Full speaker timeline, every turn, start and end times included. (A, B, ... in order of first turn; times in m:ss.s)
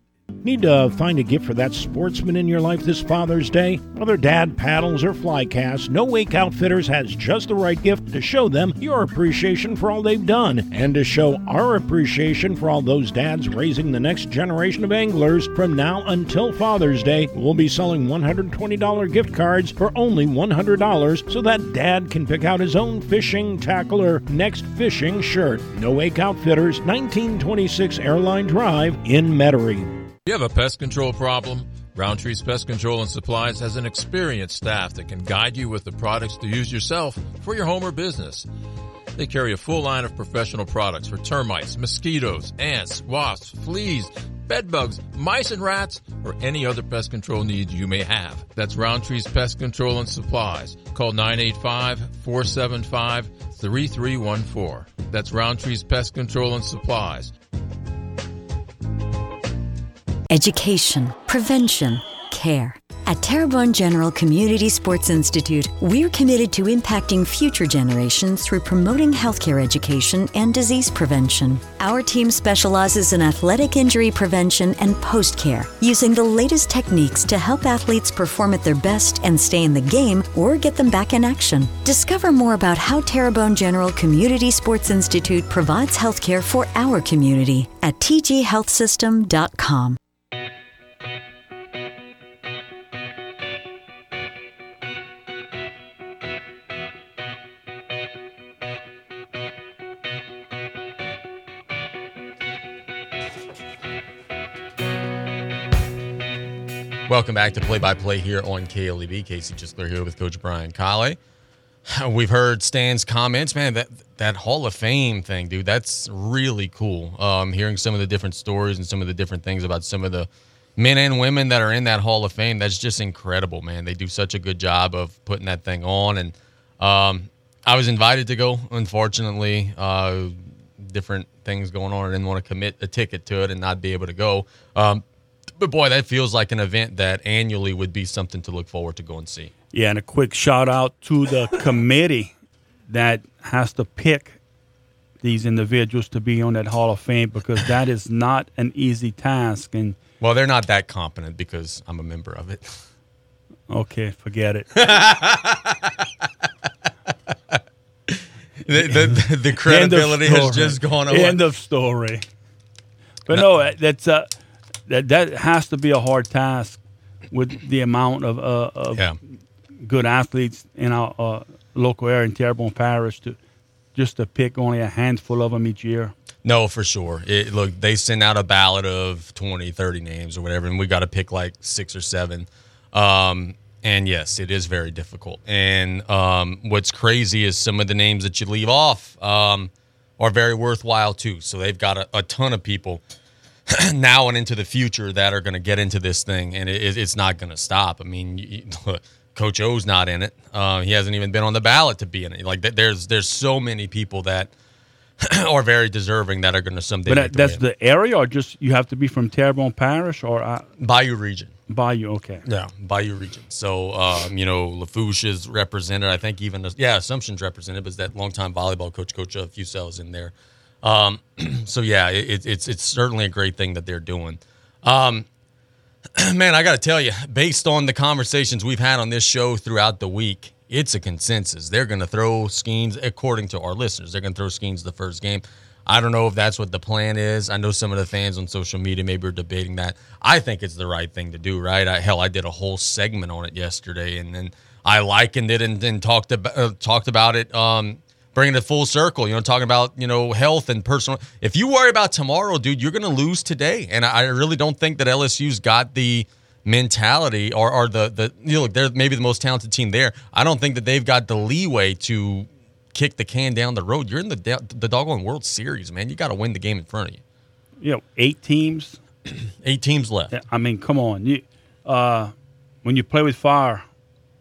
0:00.4-0:30.0 A
0:30.2-0:38.5 B
0:39.2-0:57.3 B
1:00.3-1:30.0 C
1:47.1-1:51.2 D
1:51.9-2:15.0 D
2:15.6-2:19.5 D
2:19.7-2:22.3 E
2:22.9-2:24.4 E
2:25.2-2:30.0 E
2:30.2-2:32.8 D
2:33.7-2:34.7 E
2:34.8-2:36.0 D
2:38.1-2:41.4 D
2:38.8-2:42.2 E
2:43.3-2:44.3 E
2:44.9-2:46.8 E
2:47.3-2:49.1 E
2:49.8-2:53.4 E
2:53.9-2:56.1 E
2:56.4-3:13.0 D
3:13.7-3:24.5 D
3:25.2-3:27.6 D
3:27.1-3:30.7 E
3:30.8-3:31.5 D
3:31.7-3:32.4 E
3:32.4-3:45.3 D
3:46.2-4:27.2 D
4:27.8-4:29.0 E
4:29.6-4:30.3 D
4:30.3-4:32.3 E
4:32.8-4:33.8 E